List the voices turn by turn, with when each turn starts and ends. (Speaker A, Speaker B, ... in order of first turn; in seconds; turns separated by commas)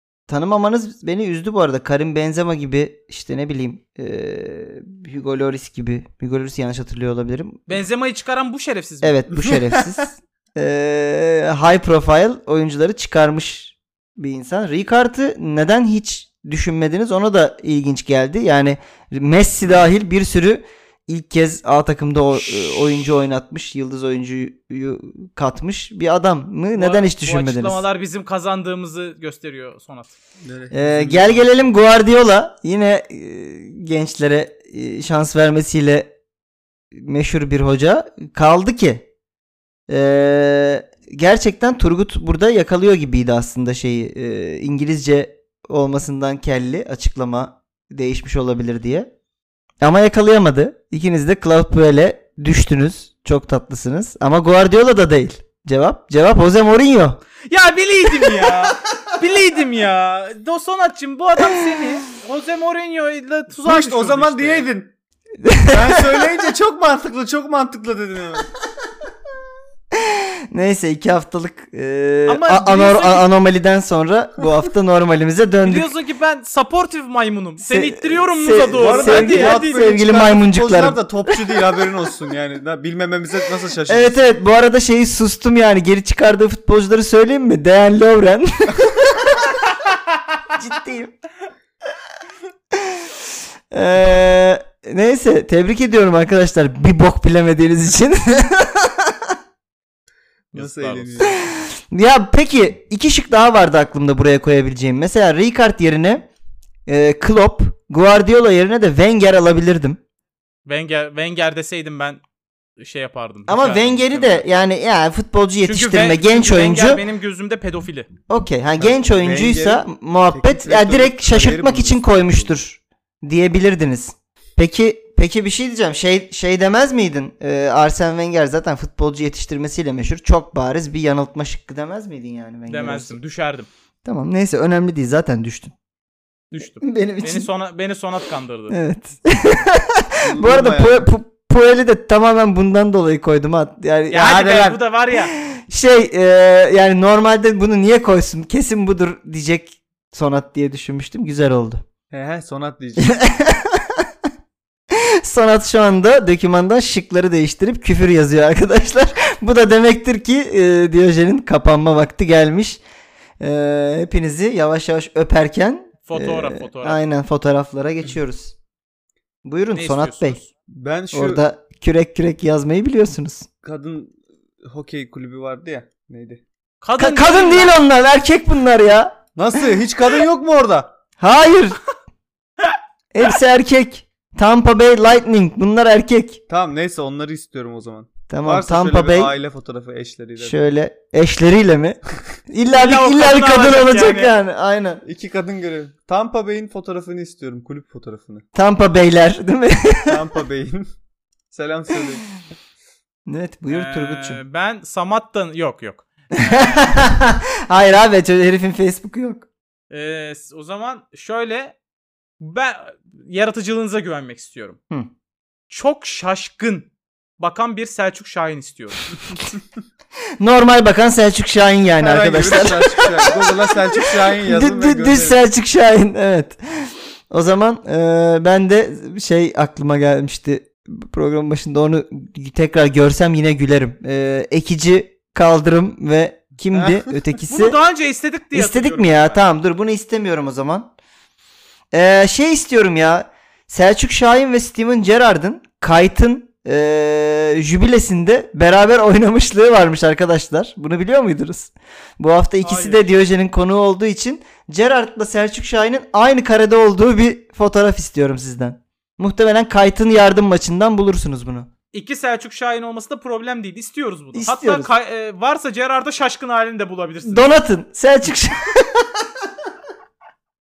Speaker A: 0.3-7.8, Speaker B: 7.7-9.2, Speaker A: 9.0-27.8, Speaker C: 9.3-9.9, Speaker B: 22.3-22.8, Speaker B: 26.8-30.1, Speaker C: 30.4-31.5, Speaker A: 30.7-36.1, Speaker A: 36.9-39.1, Speaker A: 39.9-49.1, Speaker A: 49.8-57.2, Speaker B: 57.5-64.7, Speaker A: 58.2-58.6, Speaker A: 61.4-61.9, Speaker C: 63.6-64.9, Speaker A: 65.4-66.3, Speaker C: 65.6-68.5, Speaker A: 69.9-75.9, Speaker B: 72.3-73.3, Speaker B: 75.6-79.7, Speaker A: 77.6-81.0, Speaker C: 78.8-84.2, Speaker A: 83.9-89.7, Speaker A: 90.5-91.2, Speaker A: 92.7-99.4, Speaker B: 100.5-101.3, Speaker C: 100.5-101.4, Speaker A: 101.2-106.3, Speaker A: 106.9-110.0, Speaker B: 110.7-112.2, Speaker B: 112.8-114.4, Speaker A: 113.5-117.0, Speaker B: 115.6-118.1, Speaker A: 118.3-133.2, Speaker C: 118.8-122.5, Speaker B: 132.7-133.7, Speaker A: 134.0-135.7, Speaker B: 136.5-138.8, Speaker A: 136.8-137.5, Speaker A: 138.7-151.8, Speaker C: 140.2-141.1, Speaker B: 144.1-145.3, Speaker C: 152.1-153.1, Speaker A: 153.0-154.1, Speaker A: 154.9-162.8, Speaker A: 163.4-168.6, Speaker B: 166.1-167.0, Speaker A: 169.4-170.4, Speaker B: 169.7-170.5, Speaker C: 170.7-171.4, Speaker A: 171.1-173.5, Speaker C: 173.6-176.4, Speaker B: 176.8-177.8, Speaker A: 177.0-179.2, Speaker C: 179.4-180.9, Speaker A: 181.2-181.8, Speaker A: 183.1-186.4, Speaker C: 186.5-190.6, Speaker A: 188.3-189.3, Speaker A: 190.4-195.0, Speaker B: 192.7-194.3, Speaker C: 195.1-198.4, Speaker A: 198.5-200.2, Speaker C: 200.1-200.9, Speaker C: 201.5-202.3, Speaker A: 203.3-204.4, Speaker B: 203.7-206.9, Speaker A: 206.4-209.5, Speaker B: 209.9-211.8, Speaker B: 212.4-214.8, Speaker B: 215.7-219.1, Speaker A: 220.4-237.8, Speaker C: 222.0-225.4, Speaker C: 236.8-237.1, Speaker B: 237.5-239.4, Speaker A: 238.5-240.9, Speaker A: 241.9-261.7, Speaker B: 252.6-253.0, Speaker B: 261.9-267.5, Speaker A: 264.4-264.9, Speaker A: 267.2-269.3